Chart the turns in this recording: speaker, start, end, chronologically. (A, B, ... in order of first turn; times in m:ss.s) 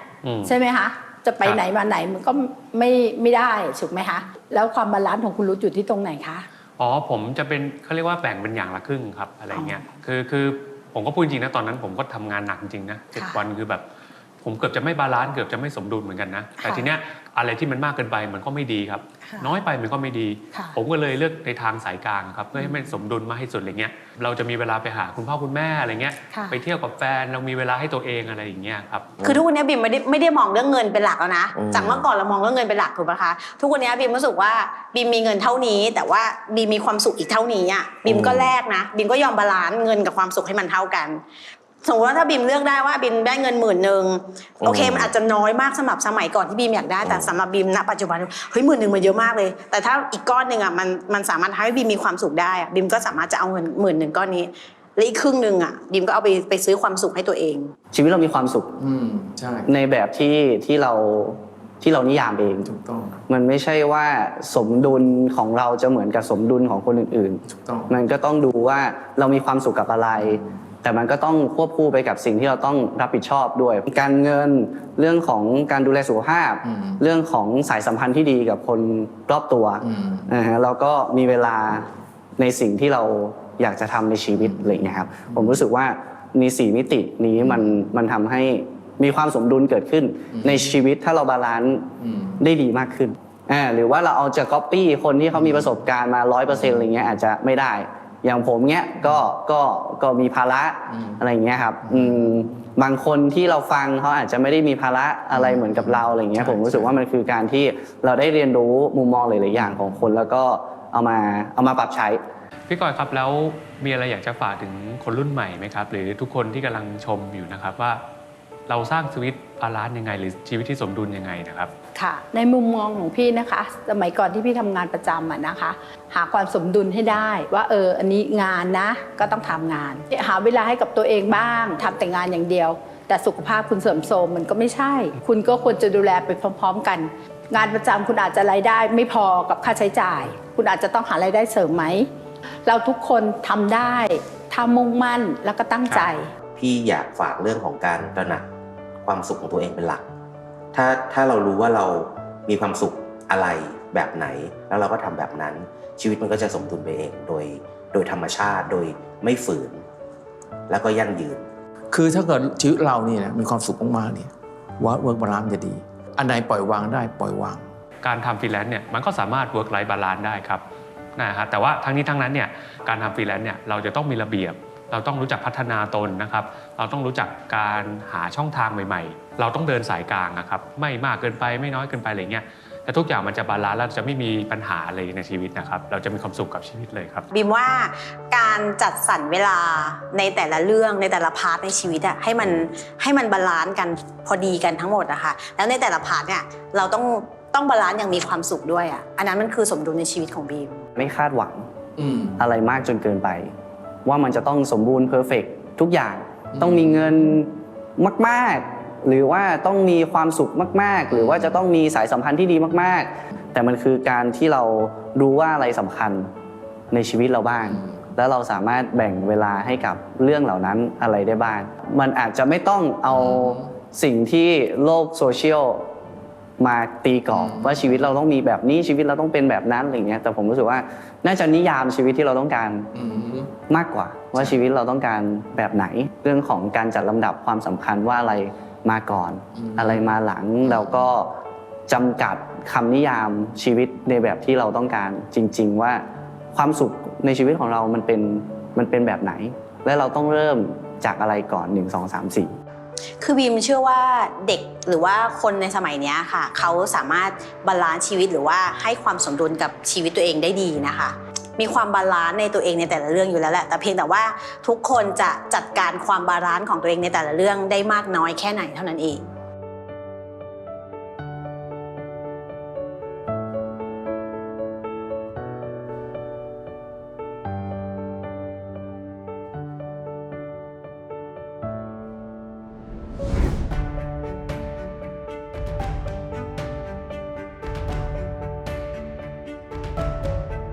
0:00.2-0:00.6 A
0:00.4-0:06.4 B
0:06.8-0:13.8 A
0:14.4-0:29.1 A
0:26.3-0:26.6 C
0:29.2-0:29.4 D
0:29.2-0:41.2 C
0:31.5-0:32.1 D
0:38.0-0:38.5 D
0:41.8-0:57.7 C
0:44.6-0:45.1 D
0:47.0-0:47.3 D
0:57.9-0:58.7 E
0:58.8-0:59.7 F
0:59.6-1:02.7 E
1:02.6-1:03.2 F
1:03.3-1:52.2 E
1:07.4-1:07.9 F
1:16.6-1:17.0 F
1:19.8-1:20.3 F
1:24.4-1:25.6 F
1:30.3-1:30.7 F
1:32.0-1:32.4 F
1:35.3-1:35.7 F
1:40.9-1:41.2 F
1:41.8-1:42.2 F
1:45.3-1:46.9 F
1:52.7-1:58.0 A
1:58.7-2:01.7 A
2:02.0-2:22.1 B
2:22.6-2:26.3 B
2:26.6-2:28.4 D
2:29.0-2:30.0 D
2:30.7-2:39.8 D
2:40.7-2:41.4 D
2:41.9-2:47.6 F
2:48.0-2:50.6 A
2:51.2-3:07.3 A
3:07.3-3:20.8 C
3:21.0-3:21.7 E
3:22.0-3:22.4 F
3:22.4-3:23.5 E
3:24.0-3:36.3 E
3:26.5-3:27.1 F
3:31.1-3:31.5 F
3:36.9-3:45.9 E
3:43.1-3:43.7 F
3:46.6-3:52.9 E
3:47.3-3:48.0 F
3:52.9-3:53.5 F
3:53.7-4:01.3 E
3:59.5-4:00.0 F
4:00.6-4:01.0 F
4:01.9-4:12.5 E
4:13.2-4:29.2 C